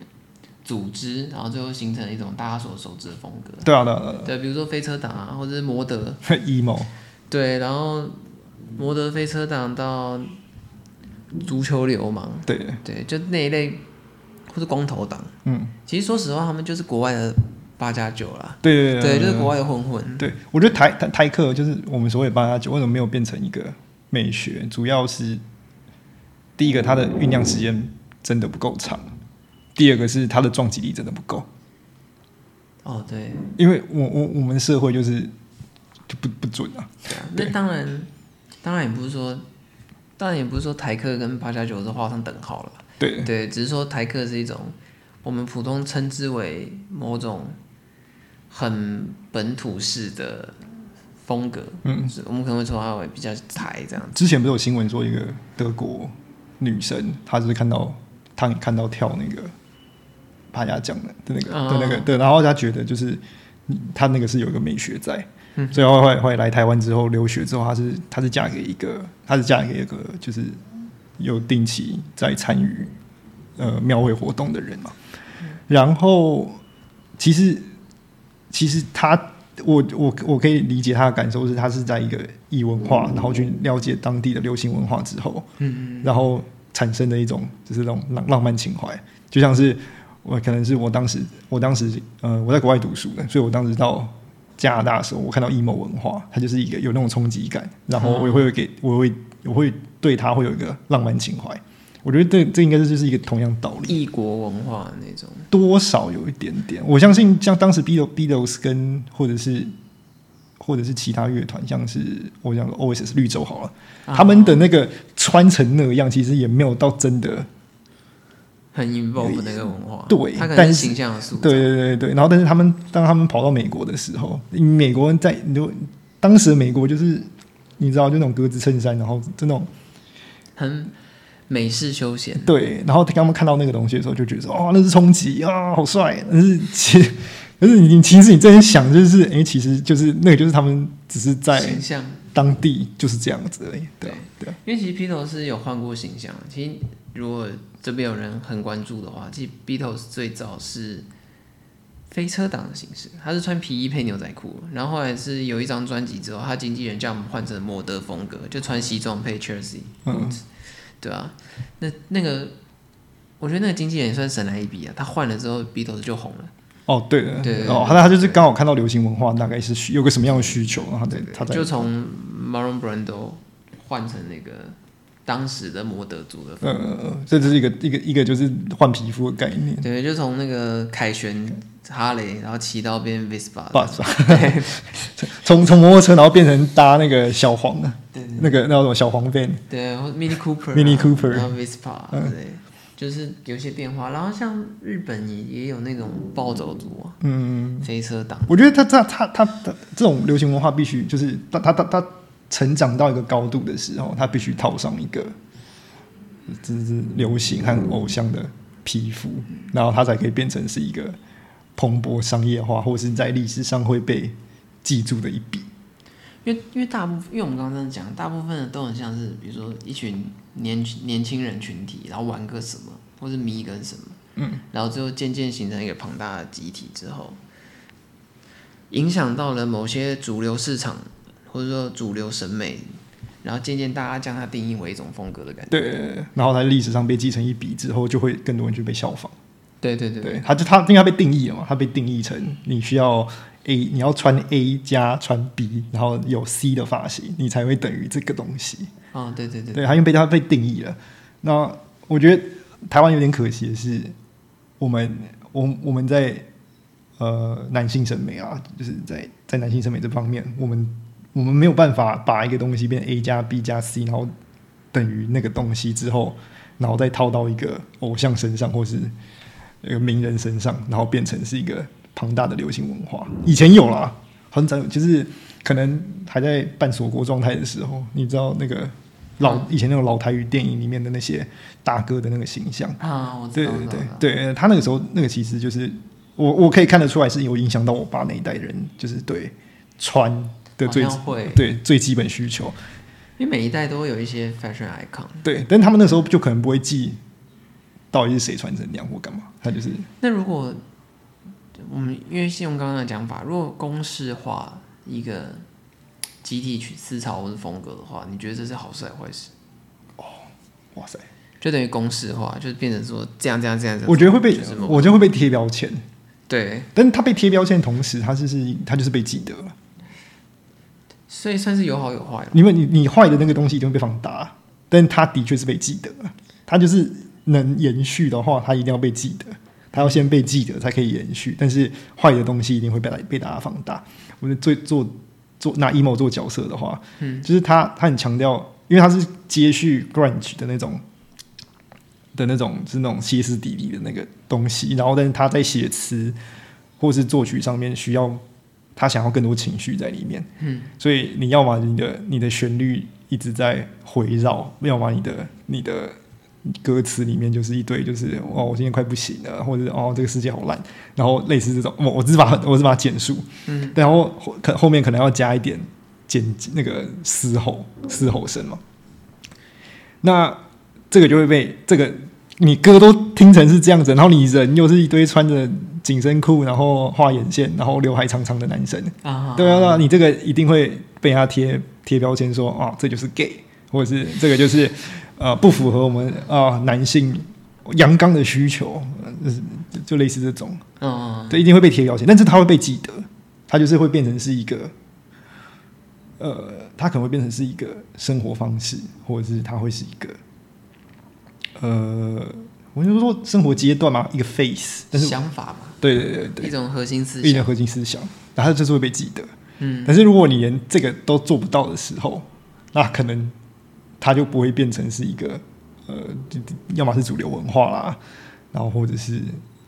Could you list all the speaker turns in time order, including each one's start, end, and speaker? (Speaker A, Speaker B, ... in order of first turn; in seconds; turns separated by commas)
Speaker A: 0.6-3.7, Speaker B: 3.6-4.3, Speaker A: 4.2-6.2, Speaker B: 6.2-6.9, Speaker A: 7.3-10.3, Speaker A: 11.4-13.8, Speaker B: 12.5-12.8, Speaker A: 14.5-15.3, Speaker B: 15.4-15.7, Speaker A: 15.8-20.3, Speaker B: 18.6-19.5, Speaker B: 20.2-25.4, Speaker B: 26.6-29.1, Speaker B: 29.8-31.5, Speaker A: 32.8-33.5, Speaker B: 33.6-35.3, Speaker B: 36.1-37.5, Speaker A: 37.1-38.1, Speaker A: 38.6-39.4, Speaker A: 40.2-47.6, Speaker B: 43.0-43.3, Speaker A: 48.5-54.2, Speaker B: 51.8-52.1, Speaker B: 54.1-59.5, Speaker B: 60.5-70.6, Speaker A: 61.4-62.1, Speaker A: 65.6-65.8, Speaker B: 71.2-72.9, Speaker B: 73.6-74.9, Speaker B: 75.7-76.6, Speaker B: 77.2-77.7, Speaker B: 78.5-85.5, Speaker A: 85.6-86.2, Speaker B: 86.0-104.0, Speaker A: 98.0-98.5, Speaker A: 103.8-105.5, Speaker B: 105.5-109.7, Speaker B: 110.6-117.5, Speaker A: 114.1-114.7, Speaker A: 118.7-121.7, Speaker B: 119.2-129.7, Speaker A: 130.6-130.9, Speaker A: 131.5-132.5, Speaker B: 132.4-144.6, Speaker A: 141.5-142.2, Speaker A: 144.0-151.1, Speaker A: 152.1-160.4, Speaker B: 160.1-160.4, Speaker A: 161.0-162.6, Speaker A: 163.4-166.5, Speaker B: 166.9-171.9, Speaker A: 167.4-168.4, Speaker A: 171.1-177.5, Speaker B: 176.6-179.8, Speaker A: 179.8-185.1, Speaker B: 183.7-189.6, Speaker A: 188.1-188.6, Speaker A: 189.7-197.2, Speaker B: 190.7-191.5, Speaker B: 197.2-197.9, Speaker A: 197.8-198.6, Speaker B: 198.5-205.3, Speaker B: 206.5-211.2, Speaker B: 211.8-215.7, Speaker A: 216.4-224.2, Speaker B: 224.4-224.6, Speaker A: 224.7-227.4, Speaker A: 228.9-235.9, Speaker B: 235.7-239.3, Speaker A: 239.8-240.4, Speaker B: 240.2-248.9, Speaker A: 249.1-250.0, Speaker B: 249.7-254.1, Speaker B: 254.8-256.5, Speaker B: 257.2-264.3, Speaker B: 264.9-269.1, Speaker B: 269.8-283.0, Speaker A: 279.4-279.7, Speaker A: 283.0-284.3, Speaker B: 283.5-292.8, Speaker A: 290.8-291.6, Speaker A: 293.4-295.4, Speaker B: 295.4-297.2, Speaker B: 298.1-300.1, Speaker A: 300.2-300.8, Speaker A: 301.8-305.6, Speaker A: 306.4-309.5, Speaker B: 310.2-311.2, Speaker A: 311.6-315.3, Speaker B: 314.1-316.0, Speaker A: 316.5-316.9, Speaker B: 316.9-319.7, Speaker A: 321.3-322.6, Speaker B: 322.5-341.0, Speaker A: 337.2-337.5, Speaker B: 342.3-346.4, Speaker B: 347.0-348.4, Speaker B: 348.9-368.8, Speaker A: 350.6-350.9, Speaker A: 363.7-364.0, Speaker B: 370.2-390.8, Speaker A: 379.2-380.1, Speaker A: 391.0-391.6, Speaker B: 391.5-394.9, Speaker B: 396.4-400.4, Speaker B: 401.8-405.4, Speaker A: 405.1-406.0, Speaker B: 406.0-406.7, Speaker A: 406.6-407.7, Speaker B: 407.4-409.5, Speaker A: 409.8-410.2, Speaker B: 410.1-413.5, Speaker B: 414.2-418.2, Speaker B: 418.7-419.6